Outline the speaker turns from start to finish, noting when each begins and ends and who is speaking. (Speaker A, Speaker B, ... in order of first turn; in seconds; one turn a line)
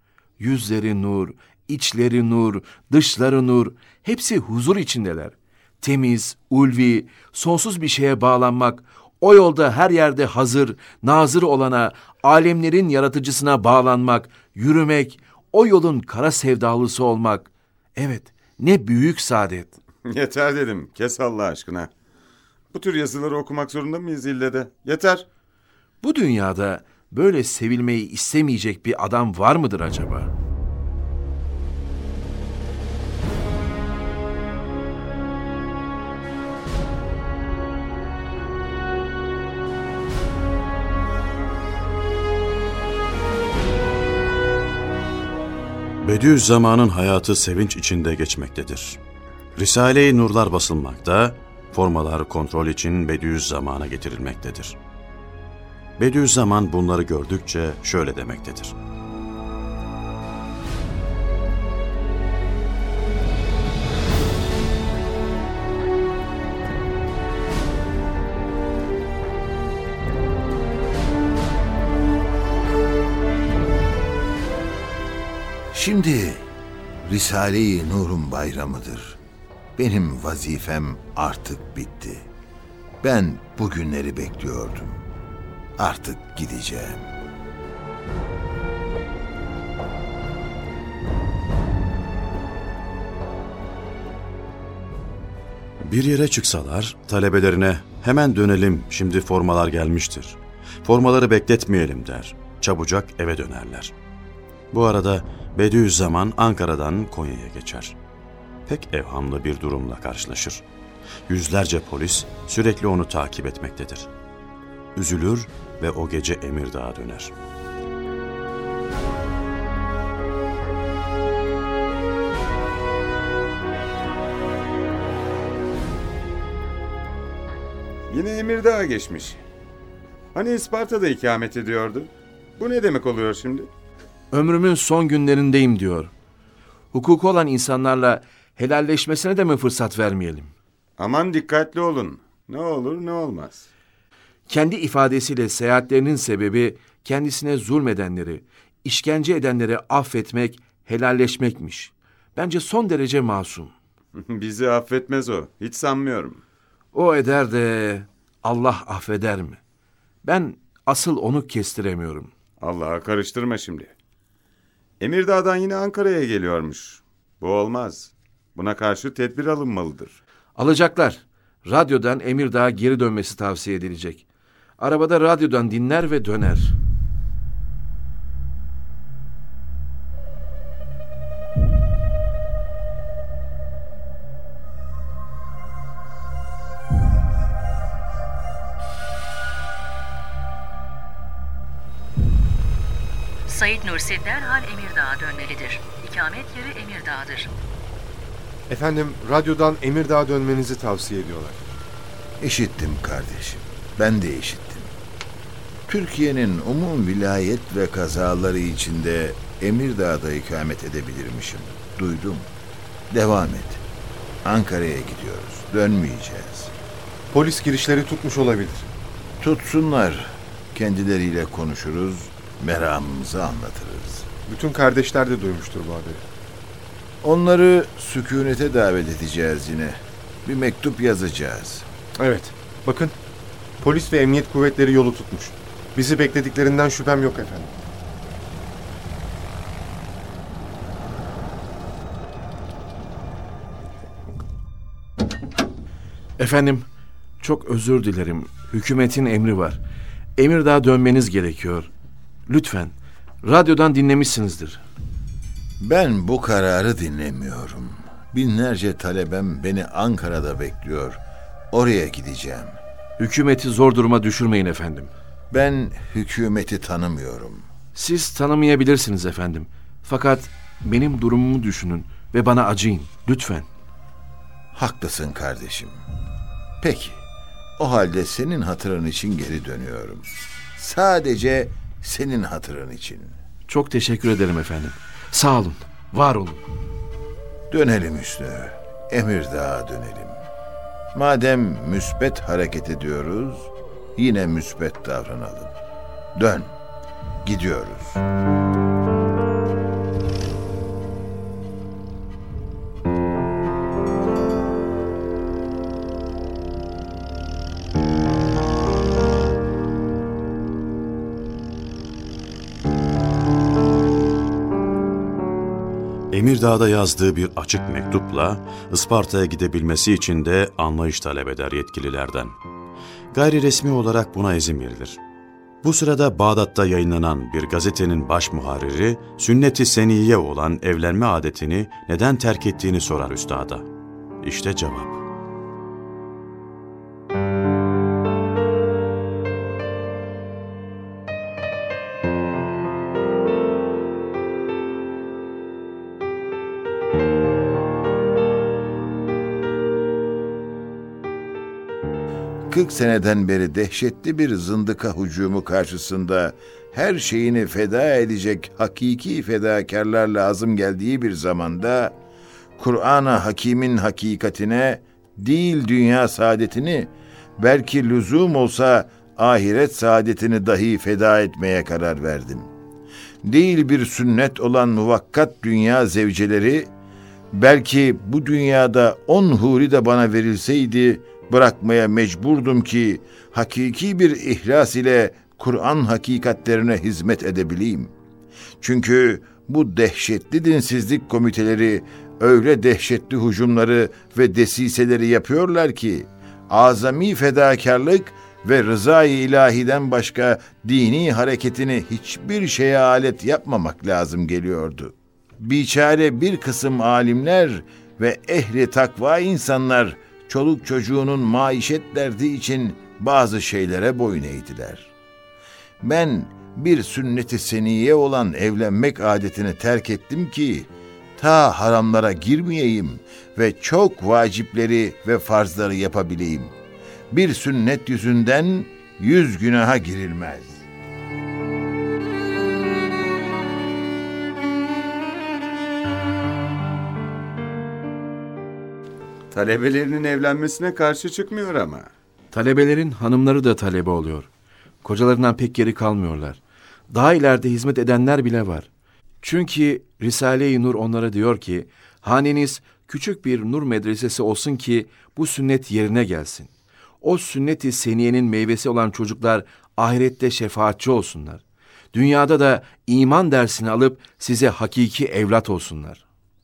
Speaker A: 0.4-19.8
Speaker B: 20.0-21.9
Speaker B: 22.7-25.2
Speaker A: 26.0-30.3
Speaker C: 46.0-49.0
Speaker C: 49.5-54.8
Speaker C: 56.0-58.8
Speaker D: 75.7-76.5
Speaker D: 77.0-79.2
Speaker D: 79.8-82.2
Speaker D: 83.0-85.0
Speaker D: 85.8-87.1
Speaker C: 95.8-103.9
Speaker C: 104.7-108.0
Speaker C: 108.7-110.6
Speaker C: 111.3-114.1
Speaker C: 114.9-117.3
Speaker B: 128.1-129.4
Speaker B: 130.3-133.7
Speaker A: 134.3-136.1
Speaker A: 136.9-140.5
Speaker B: 141.0-143.7
Speaker A: 144.5-153.7
Speaker B: 154.1-156.4
Speaker A: 156.9-159.6
Speaker A: 160.2-162.3
Speaker B: 162.6-163.9
Speaker B: 165.0-170.2
Speaker A: 170.6-174.2
Speaker A: 174.8-176.8
Speaker E: 193.4-197.5
Speaker F: 198.7-201.6
Speaker D: 202.4-204.9
Speaker D: 205.9-212.5
Speaker D: 213.1-213.8
Speaker D: 214.4-216.7
Speaker F: 217.3-218.9
Speaker D: 219.4-224.3
Speaker F: 224.4-226.2
Speaker D: 227.2-231.9
Speaker F: 232.2-233.2
Speaker F: 233.8-237.7
Speaker A: 246.4-246.9
Speaker A: 247.4-249.8
Speaker A: 250.4-251.9
Speaker A: 252.5-254.8
Speaker D: 255.8-262.8
Speaker A: 263.2-265.1
Speaker D: 265.5-267.7
Speaker A: 267.9-273.7
Speaker D: 274.7-276.0
Speaker D: 276.8-277.2
Speaker D: 277.8-283.4
Speaker A: 283.7-286.6
Speaker D: 287.7-290.4
Speaker D: 291.1-295.7
Speaker D: 296.4-296.7
Speaker D: 297.4-298.2
Speaker C: 316.3-322.6
Speaker C: 323.3-325.2
Speaker C: 325.8-333.9
Speaker C: 334.4-335.2
Speaker D: 352.7-362.2
Speaker D: 362.8-372.7
Speaker D: 373.4-376.9
Speaker D: 377.5-388.1
Speaker D: 388.8-415.1
Speaker D: 416.0-426.7
Speaker D: 427.3-430.8
Speaker B: 439.5-442.1
Speaker A: 442.5-444.5
Speaker A: 445.0-446.6
Speaker A: 447.1-448.9
Speaker A: 449.4-456.7
Speaker A: 457.2-466.2